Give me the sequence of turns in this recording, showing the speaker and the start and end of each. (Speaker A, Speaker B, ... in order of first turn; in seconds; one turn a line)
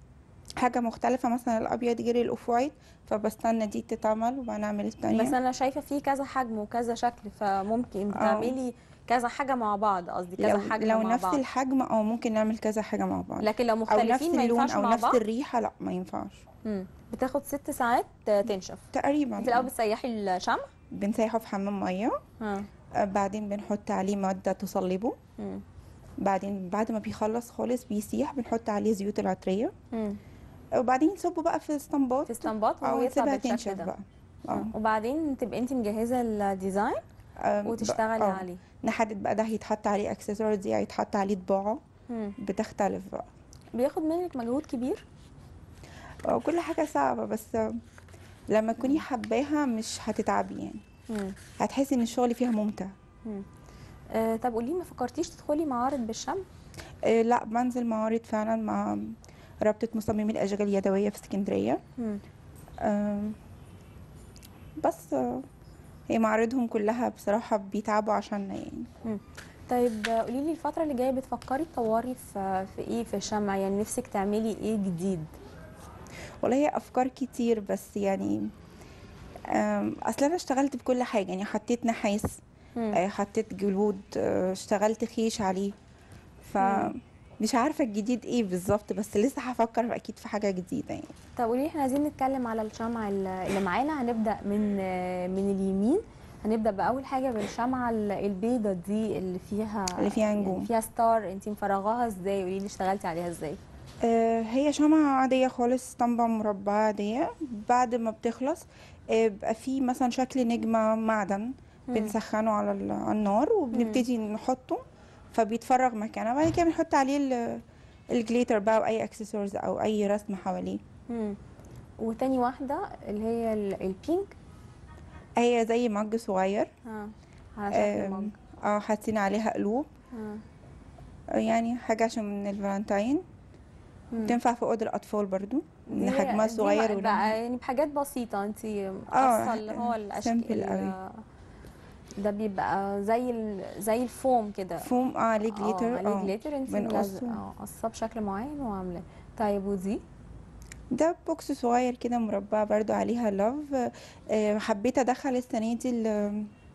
Speaker A: 0.6-5.4
Speaker B: 5.1-11.4
Speaker A: 8.1-8.6
Speaker A: 10.4-16.4
Speaker B: 13.4-15.2
Speaker B: 16.6-18.9
Speaker A: 18.9-19.7
Speaker B: 19.4-20.7
Speaker A: 20.9-22.1
Speaker B: 22.4-22.7
Speaker A: 23.0-25.1
Speaker B: 25.4-25.6
Speaker A: 26.2-29.7
Speaker B: 29.9-30.2
Speaker A: 30.8-34.7
Speaker B: 32.3-33.9
Speaker B: 34.5-37.0
Speaker A: 37.4-41.8
Speaker B: 37.6-38.6
Speaker B: 42.1-42.3
Speaker A: 42.4-43.3
Speaker B: 43.8-45.0
Speaker A: 46.2-47.8
Speaker A: 48.5-50.8
Speaker B: 51.1-51.4
Speaker A: 51.6-52.9
Speaker B: 54.1-56.4
Speaker A: 57.0-61.8
Speaker B: 62.0-62.2
Speaker A: 62.8-63.4
Speaker A: 64.8-65.5
Speaker A: 66.1-68.9
Speaker B: 69.0-75.3
Speaker A: 76.4-78.5
Speaker A: 79.5-82.4
Speaker A: 82.9-85.7
Speaker A: 86.5-91.1
Speaker B: 86.6-86.9
Speaker B: 91.4-103.6
Speaker A: 100.0-100.7
Speaker A: 104.0-114.8
Speaker B: 111.9-112.2
Speaker B: 113.7-114.0
Speaker A: 115.3-120.8
Speaker B: 121.1-121.4
Speaker B: 122.0-124.3
Speaker A: 125.4-126.7
Speaker B: 126.8-128.3
Speaker A: 127.7-129.9
Speaker B: 130.1-130.4
Speaker A: 131.3-133.2
Speaker B: 134.1-134.4
Speaker A: 134.2-137.3
Speaker B: 135.9-141.2
Speaker A: 139.1-140.9
Speaker B: 142.2-144.9
Speaker A: 144.8-147.4
Speaker B: 145.5-150.0
Speaker A: 150.9-156.5